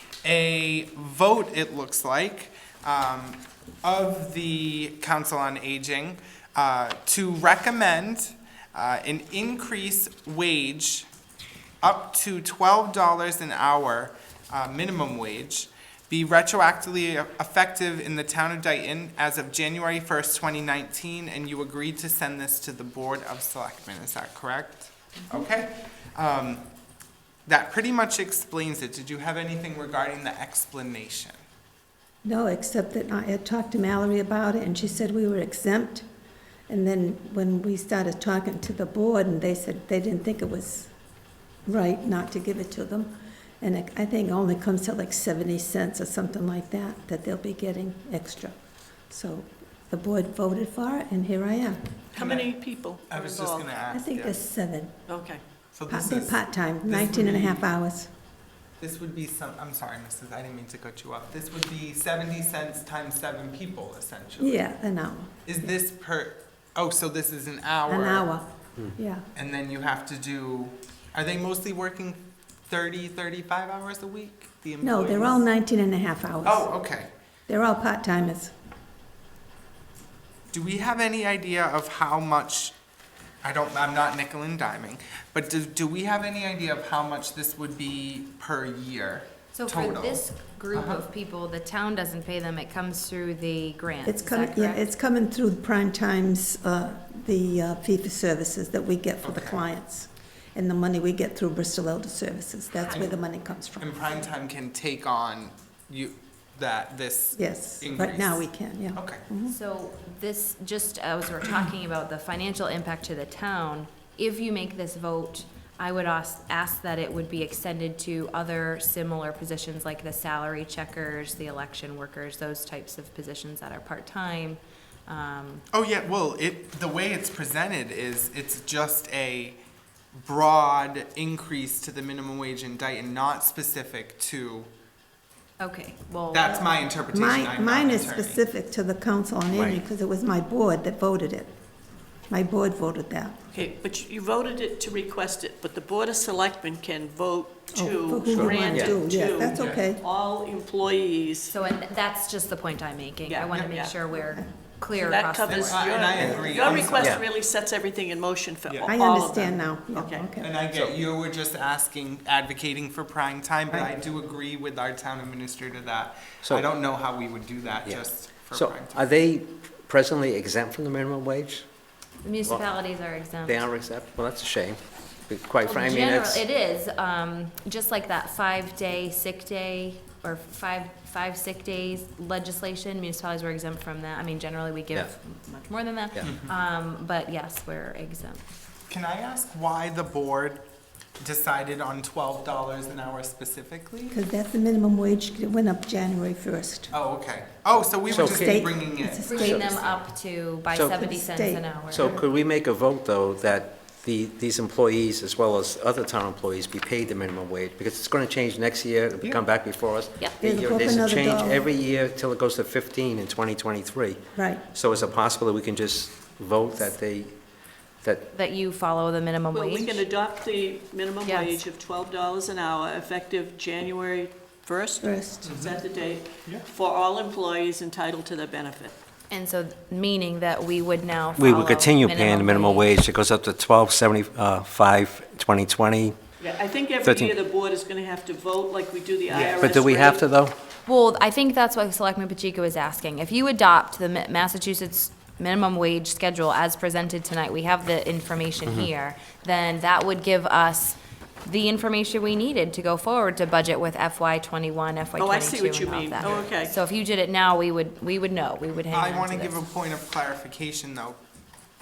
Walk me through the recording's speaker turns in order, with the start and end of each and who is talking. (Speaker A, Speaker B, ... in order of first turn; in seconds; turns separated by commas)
Speaker A: 0.2-11.1, Speaker A: 11.8-26.6, Speaker A: 27.4-31.4, Speaker B: 32.2-36.0, Speaker B: 36.7-40.9, Speaker B: 41.6-48.5, Speaker B: 49.1-51.9, Speaker C: 52.1-53.7, Speaker A: 52.1-52.5, Speaker A: 53.1-54.4, Speaker B: 53.9-54.9, Speaker C: 55.1-55.4, Speaker A: 55.7-57.7, Speaker B: 55.9-58.1, Speaker A: 58.8-64.7, Speaker B: 64.4-65.7, Speaker A: 65.4-68.3, Speaker B: 67.8-69.3, Speaker A: 69.3-75.5, Speaker B: 74.8-76.7, Speaker A: 76.4-77.1, Speaker B: 77.5-78.5, Speaker A: 80.5-82.8, Speaker A: 83.4-91.0, Speaker D: 89.5-94.9, Speaker B: 94.0-103.9, Speaker A: 99.2-99.7, Speaker A: 103.8-109.2, Speaker B: 107.4-109.5, Speaker D: 109.5-125.6, Speaker A: 125.7-129.6, Speaker A: 130.2-134.7, Speaker D: 135.6-136.6, Speaker A: 136.3-138.4, Speaker B: 136.4-141.5, Speaker E: 139.5-139.8, Speaker B: 142.3-143.4, Speaker C: 143.5-151.6, Speaker B: 147.7-150.0, Speaker E: 148.3-149.0, Speaker A: 149.5-149.8, Speaker D: 151.5-156.3, Speaker C: 153.2-154.0, Speaker A: 153.4-153.7, Speaker B: 154.2-154.5, Speaker C: 154.9-160.3, Speaker A: 155.4-157.2, Speaker E: 156.2-157.2, Speaker B: 156.2-156.7, Speaker A: 158.7-158.9, Speaker B: 158.8-160.5, Speaker A: 160.4-169.0, Speaker E: 167.8-171.7, Speaker D: 172.2-173.7, Speaker E: 173.4-176.4, Speaker D: 175.6-188.4, Speaker A: 188.9-190.6, Speaker A: 191.2-194.2, Speaker B: 194.1-196.9, Speaker A: 196.9-200.0, Speaker E: 198.1-198.7, Speaker B: 198.1-199.7, Speaker D: 199.2-202.1, Speaker E: 200.7-201.1, Speaker B: 200.9-201.7, Speaker E: 201.9-217.3, Speaker B: 210.4-211.7, Speaker B: 214.3-214.6, Speaker E: 218.0-218.3, Speaker D: 218.3-220.0, Speaker C: 219.5-228.9, Speaker D: 221.2-221.6, Speaker B: 225.0-225.4, Speaker A: 225.4-225.8, Speaker D: 229.3-232.9, Speaker E: 231.4-236.2, Speaker C: 236.4-240.2, Speaker E: 237.0-237.3, Speaker E: 239.3-240.6, Speaker D: 240.8-259.6, Speaker C: 255.2-256.7, Speaker A: 256.2-256.5, Speaker A: 258.9-261.2